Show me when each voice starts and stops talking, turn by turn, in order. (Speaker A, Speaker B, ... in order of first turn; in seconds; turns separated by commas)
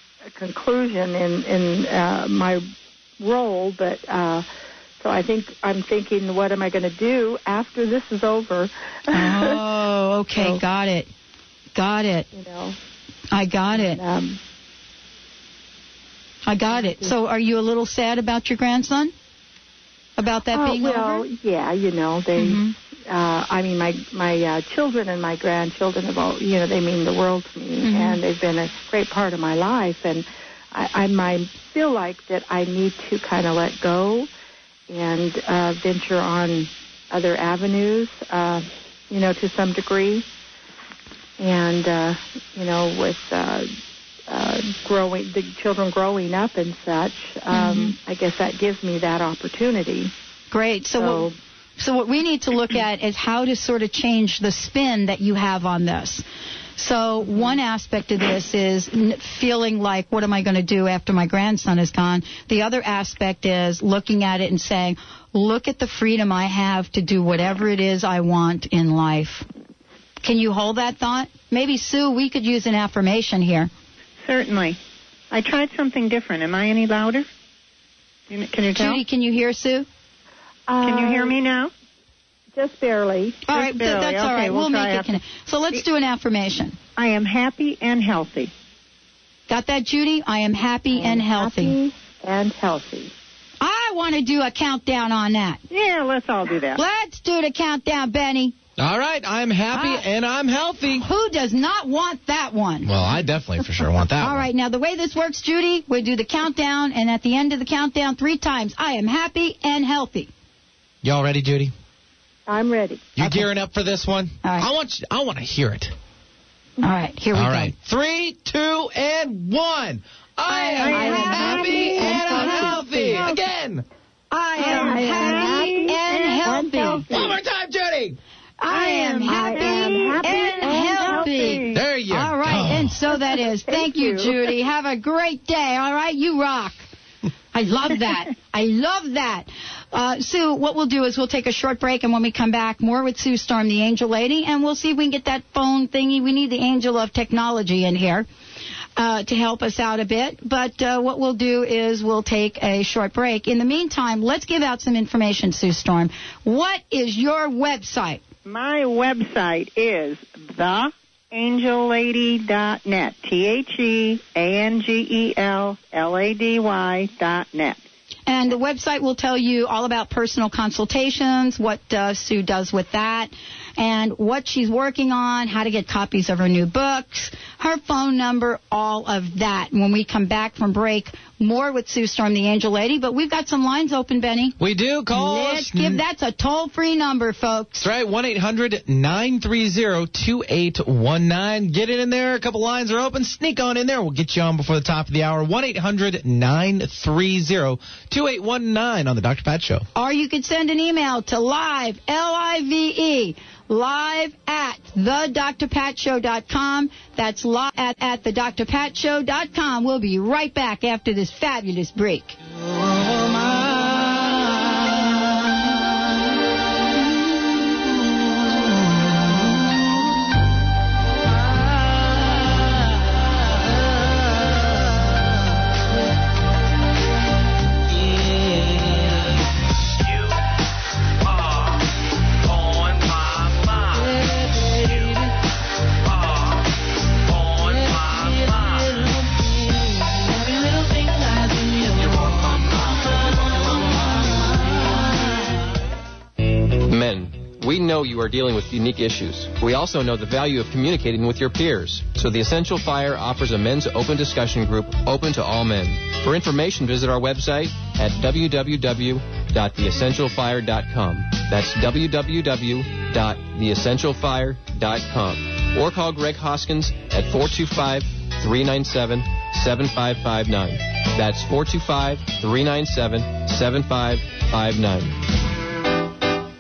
Speaker A: 0.3-2.6, Speaker A: 3.2-4.5, Speaker A: 5.0-9.7, Speaker B: 9.1-11.1, Speaker A: 10.3-10.6, Speaker B: 11.7-12.3, Speaker A: 12.3-12.8, Speaker B: 13.3-14.0, Speaker A: 13.7-14.4, Speaker B: 16.5-19.1, Speaker A: 16.7-17.1, Speaker B: 20.2-21.3, Speaker A: 20.5-34.3, Speaker B: 22.4-22.7, Speaker B: 27.8-28.2, Speaker A: 34.9-40.3, Speaker A: 41.4-43.7, Speaker A: 44.3-50.1, Speaker B: 47.5-48.0, Speaker B: 50.5-56.2, Speaker A: 51.0-51.4, Speaker B: 56.8-69.5, Speaker B: 70.2-73.7, Speaker C: 74.2-74.8, Speaker C: 75.3-77.3, Speaker C: 78.3-79.0, Speaker B: 78.8-79.9, Speaker A: 80.7-81.4, Speaker C: 80.8-81.7, Speaker A: 82.5-83.4, Speaker B: 83.5-86.8, Speaker C: 83.5-85.2, Speaker C: 87.0-88.5, Speaker B: 89.5-91.8, Speaker A: 90.9-93.1, Speaker B: 93.6-95.6, Speaker C: 95.7-96.8, Speaker B: 96.8-98.5, Speaker D: 98.8-101.1, Speaker B: 99.7-100.1, Speaker B: 100.9-102.9, Speaker D: 102.8-104.5, Speaker B: 104.2-110.3, Speaker D: 111.0-111.7, Speaker A: 112.5-113.2, Speaker D: 113.2-116.0, Speaker B: 116.8-117.7, Speaker D: 117.3-123.8, Speaker A: 120.5-123.2, Speaker C: 120.6-122.8, Speaker B: 120.9-123.2, Speaker B: 124.3-127.1, Speaker A: 124.6-127.2, Speaker C: 124.6-126.9, Speaker D: 127.1-128.2, Speaker B: 128.6-136.9, Speaker C: 128.7-131.7, Speaker A: 129.2-131.6, Speaker D: 131.7-132.9, Speaker A: 133.2-134.5, Speaker B: 137.5-148.3, Speaker B: 149.0-158.2, Speaker C: 158.5-167.8, Speaker B: 168.3-184.6, Speaker D: 184.6-186.0, Speaker B: 185.1-187.9, Speaker D: 187.8-199.8, Speaker B: 199.9-212.3, Speaker E: 246.8-275.2